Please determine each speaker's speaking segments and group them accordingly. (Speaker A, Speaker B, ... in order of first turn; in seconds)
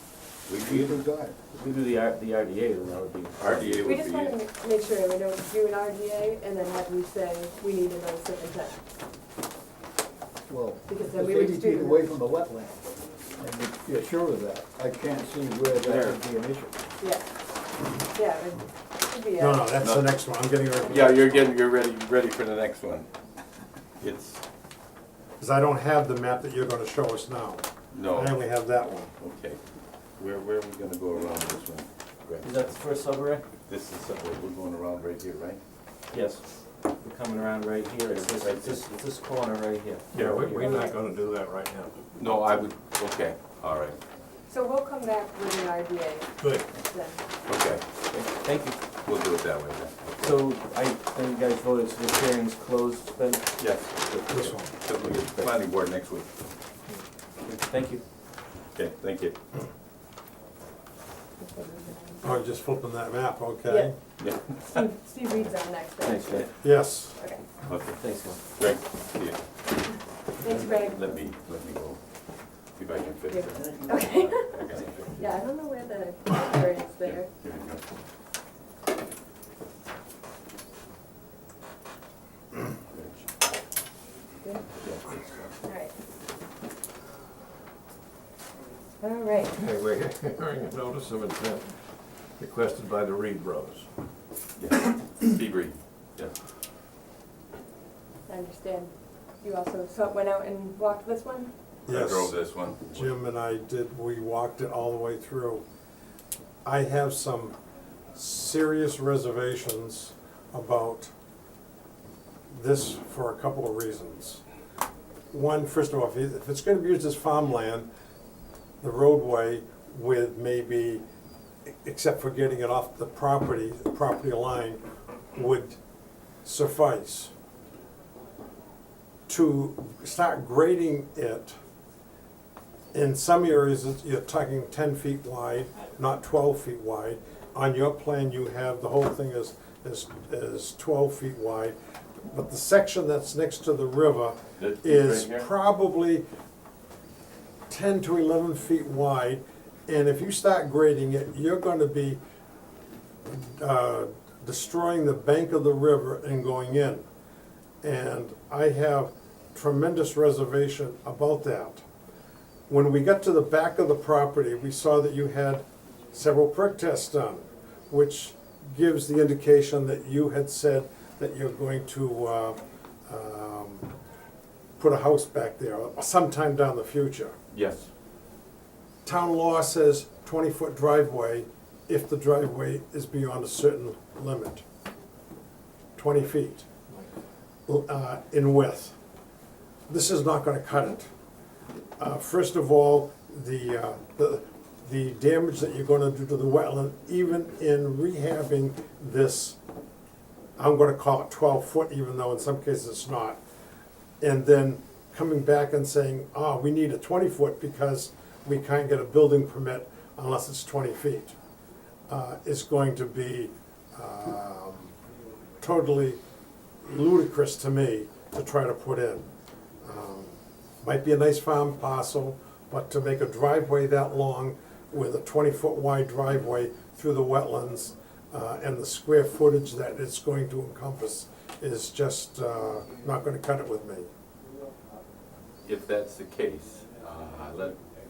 Speaker A: 0.5-1.0, 3.4-4.4, 19.8-20.1, 20.9-23.1, 24.0-24.4, 27.9-28.4, 29.2-29.6, 30.2-32.6, 33.7-35.6, 38.1-38.9, 42.1-44.0, 47.5-47.8, 49.0-50.4, 53.6-54.0, 54.6-56.3, 58.7-59.4, 64.2-64.5, 67.7-69.4, 70.5-72.0, 72.8-75.2, 77.0-77.8, 82.9-83.3, 84.8-85.5, 94.6-96.3, 101.9-103.1, 144.6-145.5, 177.5-177.9, 235.6-237.8
Speaker B: 0.7-1.4, 10.5-16.7
Speaker C: 1.5-3.8, 32.6-33.4, 36.1-36.4, 37.0-40.6, 48.1-48.7, 50.2-53.5, 57.4-58.0, 66.0-66.4, 68.0-68.4
Speaker D: 3.8-8.8, 10.8-12.1, 17.0-17.3, 17.9-19.7, 40.5-40.9, 44.5-47.2, 61.4-62.4, 63.6-63.9, 64.6-67.4, 70.4-71.1, 73.3-74.6, 75.2-77.3, 85.6-85.9, 89.0-89.6, 98.3-101.5
Speaker E: 15.8-16.2, 40.1-41.9, 46.4-46.6, 89.5-91.7, 92.4-93.9
Speaker F: 19.4-21.4, 25.4-29.1, 54.3-54.7, 62.2-63.9, 66.6-67.2, 101.9-105.6, 106.6-107.6, 108.1-111.1, 112.5-114.4, 115.3-117.9, 118.8-121.0, 121.7-124.8, 125.3-125.8, 126.4-127.3, 129.3-131.6, 132.9-146.2, 147.7-152.2, 153.3-157.0, 157.8-161.8, 162.7-173.9, 174.8-177.3, 179.0-184.6, 185.9-186.7, 187.7-188.9, 189.9-191.1, 192.0-199.6, 200.6-203.4, 204.2-211.3, 212.1-214.9, 215.6-216.2, 216.8-219.3, 219.8-234.1